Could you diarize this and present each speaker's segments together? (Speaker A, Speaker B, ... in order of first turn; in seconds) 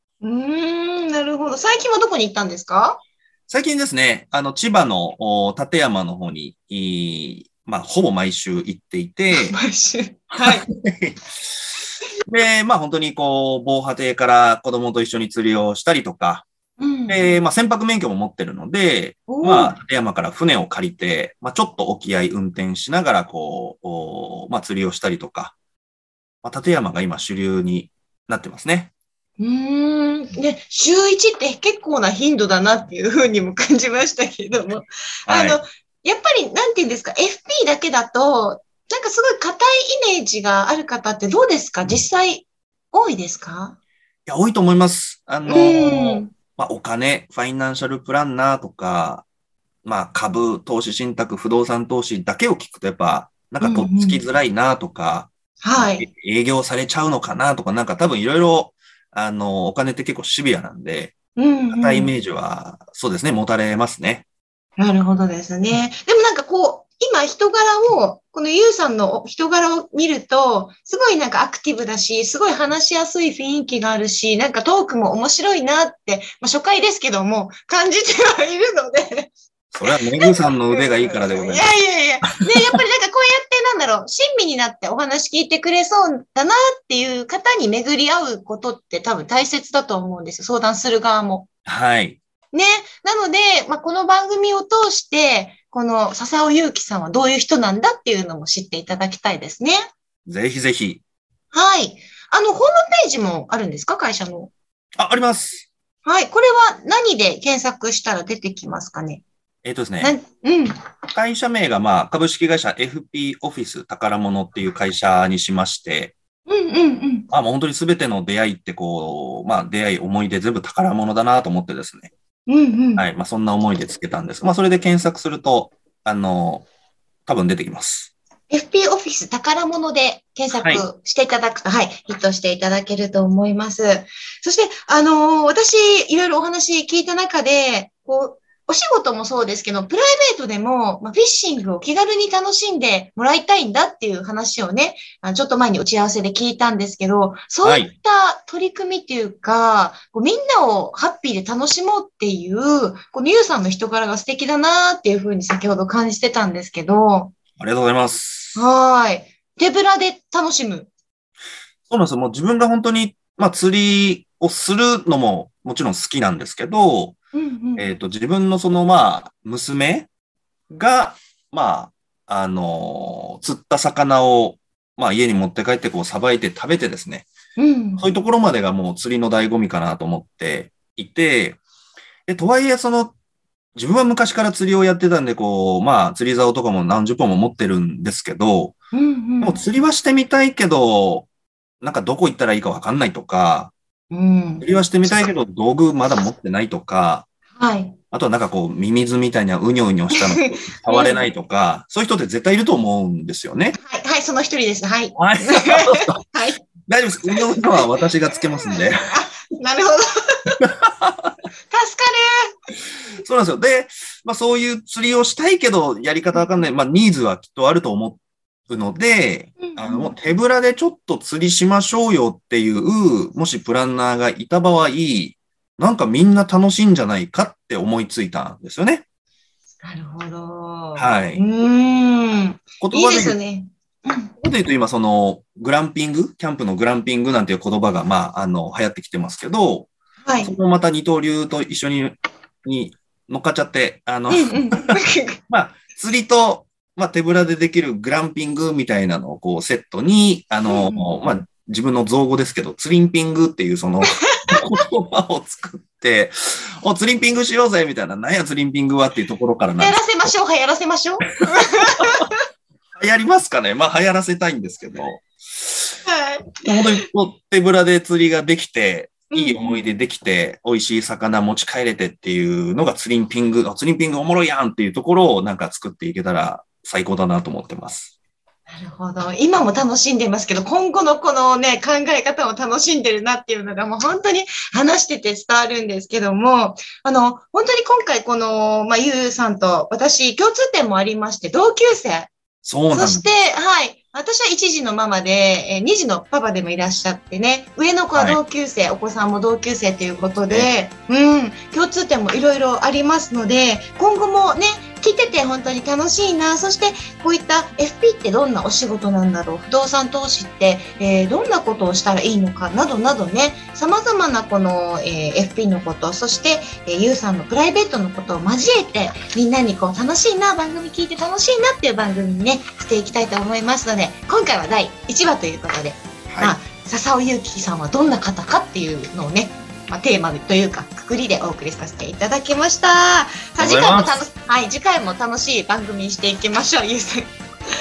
Speaker A: 0.2-3.0, 9.3-10.7, 16.8-17.3, 19.3-19.8, 29.4-43.8, 45.5-46.3, 53.6-54.2, 55.6-56.0, 61.4-62.1, 64.8-91.5, 92.5-99.8, 101.5-104.5, 106.0-109.2, 110.0-110.7, 116.5-117.3, 122.5-123.0, 128.5-157.3, 158.5-160.9, 167.3-167.8, 177.6-178.1, 188.9-189.6, 194.1-194.6, 197.6-197.9, 200.1-201.3, 203.8-206.7, 207.3-207.9, 208.5-210.5, 211.7-212.3, 219.6-220.1, 229.8-234.3, 240.2-240.5, 244.3-245.4, 250.7-251.1, 259.8-262.4, 266.1-266.8, 269.3-269.9, 278.7-292.3, 292.9-337.3
Speaker B: 3.5-9.6, 10.3-11.2, 12.3-16.4, 17.1-25.5, 26.4-28.9, 35.3-35.6, 44.2-49.2, 49.8-61.1, 61.7-64.2, 79.7-81.6, 91.7-92.2, 100.3-101.0, 105.0-105.7, 109.6-110.1, 111.1-116.1, 117.3-122.1, 123.0-126.7, 127.3-128.1, 130.5-130.8, 147.6-147.9, 157.6-158.6, 161.9-167.2, 167.8-170.1, 170.7-177.3, 178.0-181.6, 182.3-183.1, 183.8-188.7, 189.4-191.3, 191.8-193.7, 194.6-197.3, 198.1-203.8, 205.2-206.2, 206.9-209.0, 210.6-211.3, 213.2-229.0, 230.9-231.4, 232.8-233.4, 234.4-239.9, 240.4-244.9, 245.5-260.0, 262.9-265.8, 266.6-278.1, 292.6-293.3, 326.3-326.6, 333.6-334.2